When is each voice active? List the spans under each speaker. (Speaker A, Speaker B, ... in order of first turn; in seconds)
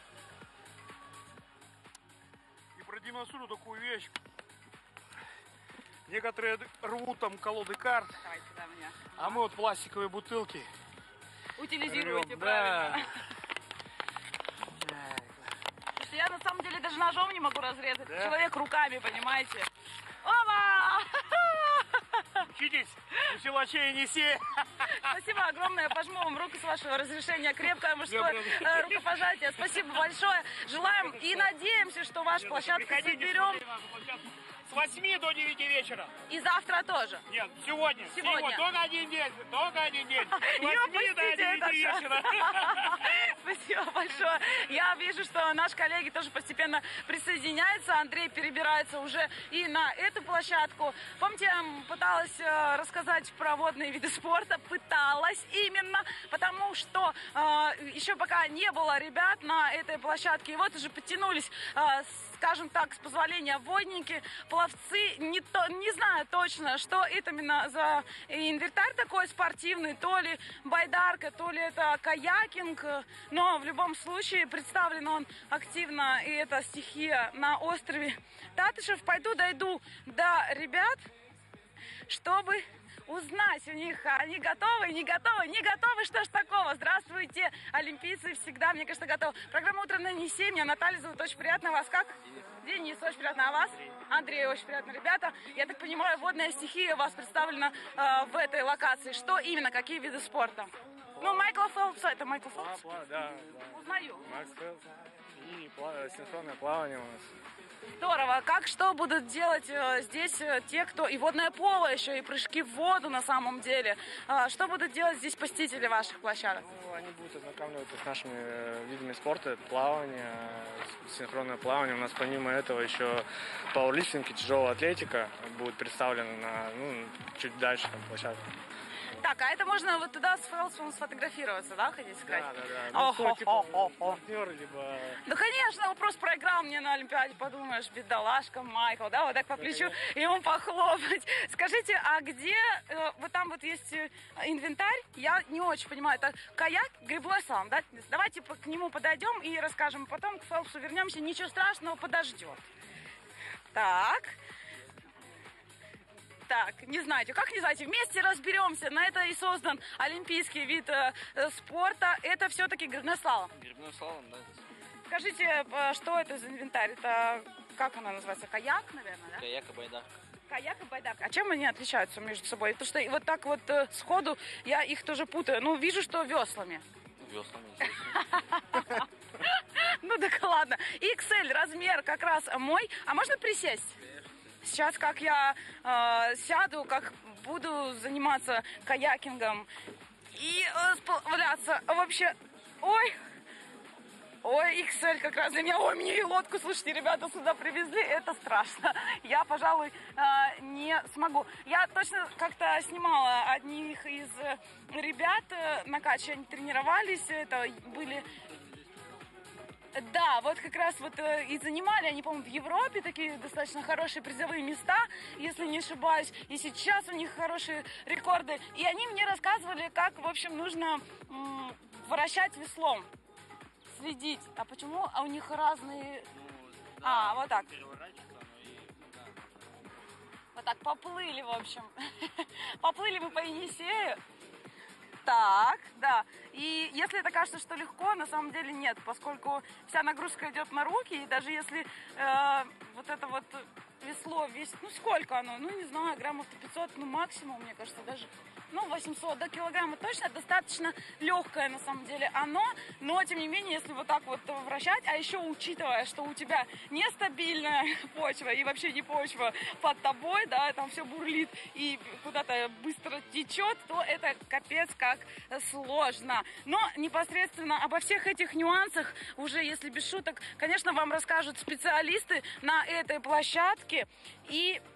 Speaker A: 2.8-4.1, 6.1-8.2, 9.2-10.7, 11.9-13.0, 14.8-15.3, 18.1-18.3, 22.5-25.1, 28.1-30.0, 31.0-31.5, 32.4-36.1, 37.3-43.0
Speaker B: 8.2-9.4, 11.6-13.1, 15.9-19.7, 20.2-22.4, 24.9-33.6, 36.3-37.2, 38.1-38.6, 40.2-81.0, 82.1-103.0, 103.7-104.3, 108.0-116.7, 129.2-134.2, 135.2-152.7, 153.7-154.4, 156.5-163.5, 165.1-169.5, 170.5-176.8, 177.8-184.0, 184.6-189.7, 190.3-193.2, 194.4-208.3, 209.9-223.1, 223.9-226.3, 227.0-227.7, 230.5-234.2, 235.2-274.8
Speaker C: 101.2-101.5, 102.5-107.3, 116.6-128.5, 132.2-135.2, 139.6-140.0
Speaker D: 163.6-164.6, 169.4-170.1, 177.2-178.0, 226.4-226.8, 227.7-229.4